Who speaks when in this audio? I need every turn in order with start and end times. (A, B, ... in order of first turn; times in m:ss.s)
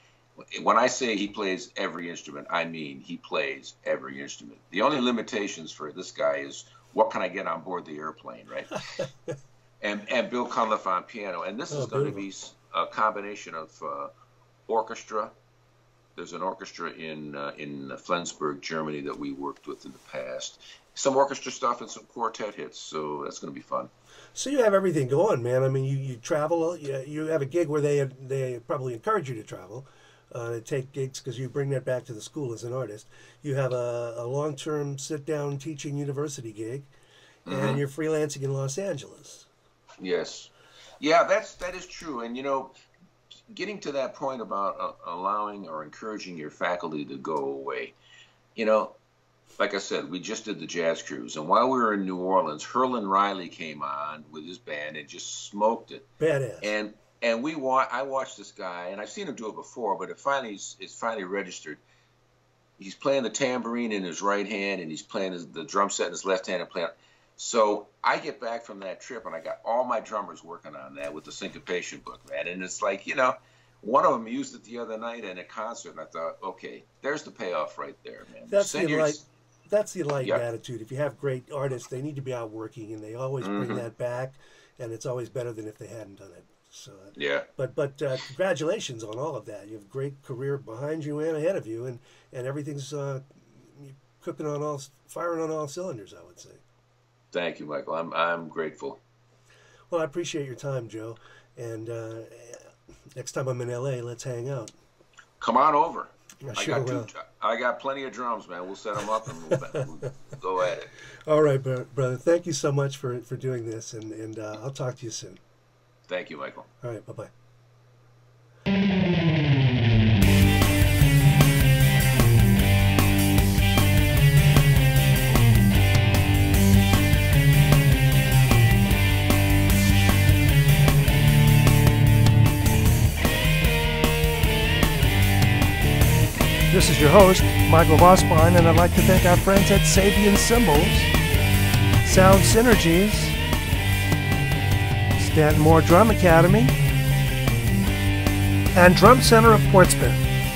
0:00.4-0:08.8 A
0:09.8-0:14.1 A
0:11.7-0:12.2 B
0:14.7-0:15.3 A
0:16.2-0:23.9 A
0:24.3-0:36.9 B
0:37.5-0:37.8 A
0:37.5-0:39.5 B
0:40.0-0:42.7 A
0:43.5-0:47.9 A
0:48.6-0:49.0 A
0:49.6-0:56.1 A
0:56.2-0:56.7 B
0:56.6-1:01.8 A
1:02.8-1:19.2 A
1:18.5-1:36.6 B
1:20.2-1:20.4 A
1:23.4-1:23.8 A
1:27.2-1:27.5 A
1:37.3-1:39.0 A
1:39.9-1:44.7 B
1:45.4-1:50.9 A
1:46.4-1:47.1 B
1:51.2-1:55.4 B
1:56.1-1:56.7 A
1:56.8-1:57.3 B
2:16.7-2:21.1 B
2:22.0-2:23.4 B
2:25.2-2:26.7 B
2:28.7-2:30.2 B